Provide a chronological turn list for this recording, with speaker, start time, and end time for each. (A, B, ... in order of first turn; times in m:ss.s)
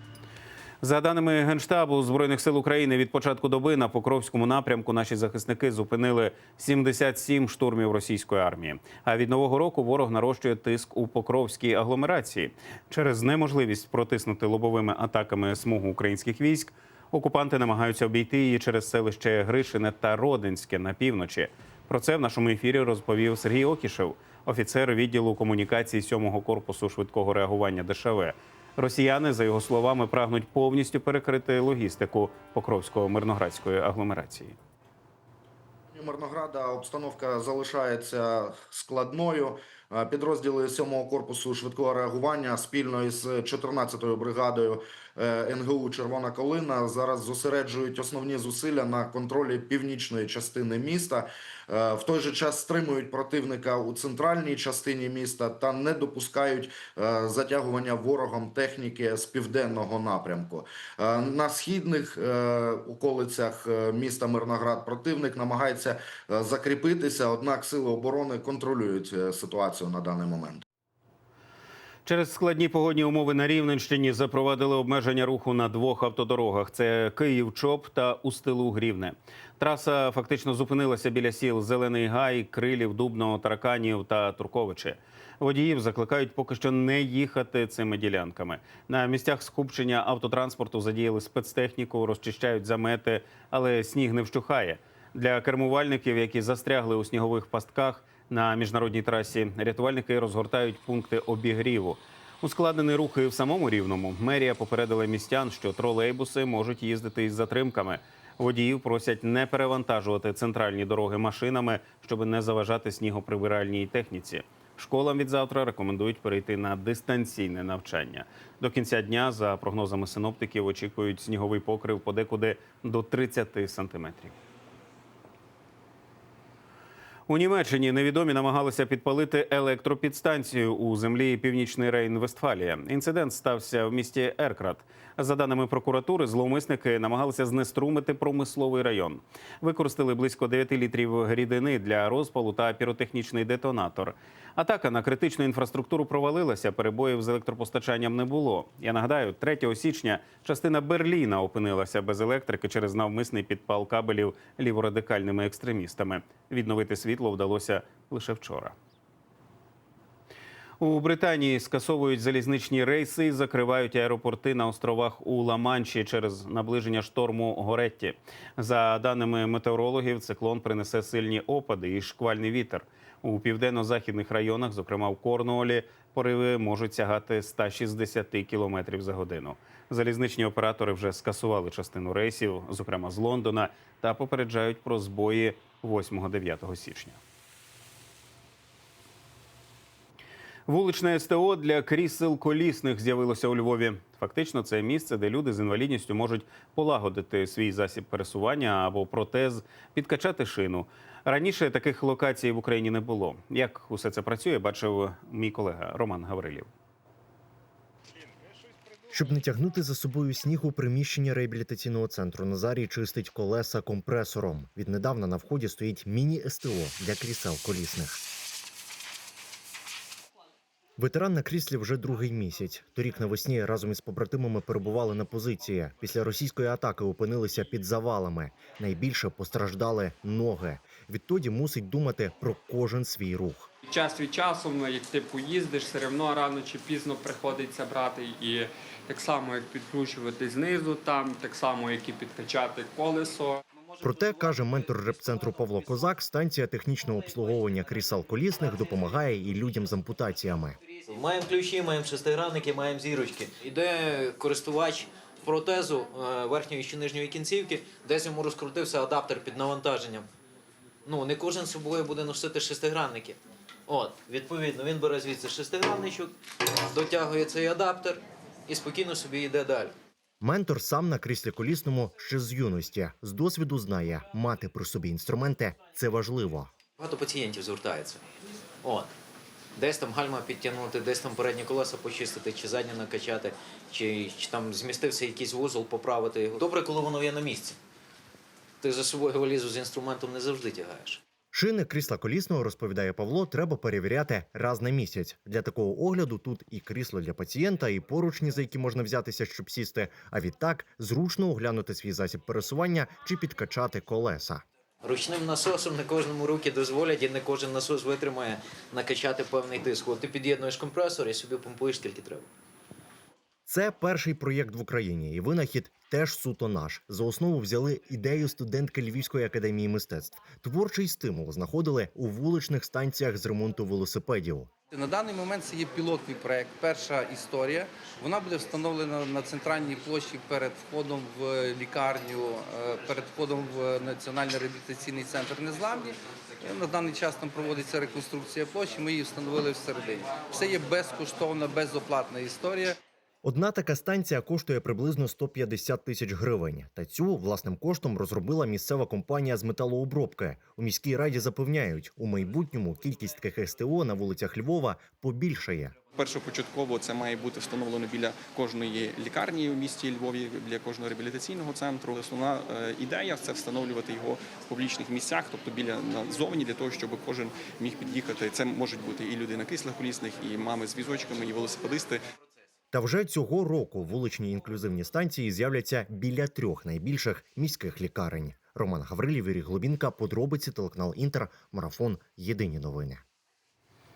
0:00.8-0:34.6 A
0:35.9-1:10.6 B
1:12.0-2:04.3 A
2:07.3-2:38.7 A
2:40.8-3:07.2 A
3:10.7-3:26.7 A
3:29.1-3:38.2 C
3:41.0-3:53.7 C
3:53.9-4:03.5 D
4:04.0-4:10.8 C
4:11.1-4:20.3 E
4:21.0-4:29.9 E
4:30.4-4:36.7 C
4:37.0-4:38.2 E
4:38.8-4:39.1 E
4:39.8-4:47.8 E
4:48.8-4:51.2 E
4:51.5-5:04.6 C
5:05.0-5:12.5 E
5:13.7-5:24.7 C
5:24.9-5:43.0 F
5:43.4-5:56.0 C
5:56.1-6:12.2 G
6:12.9-6:23.2 C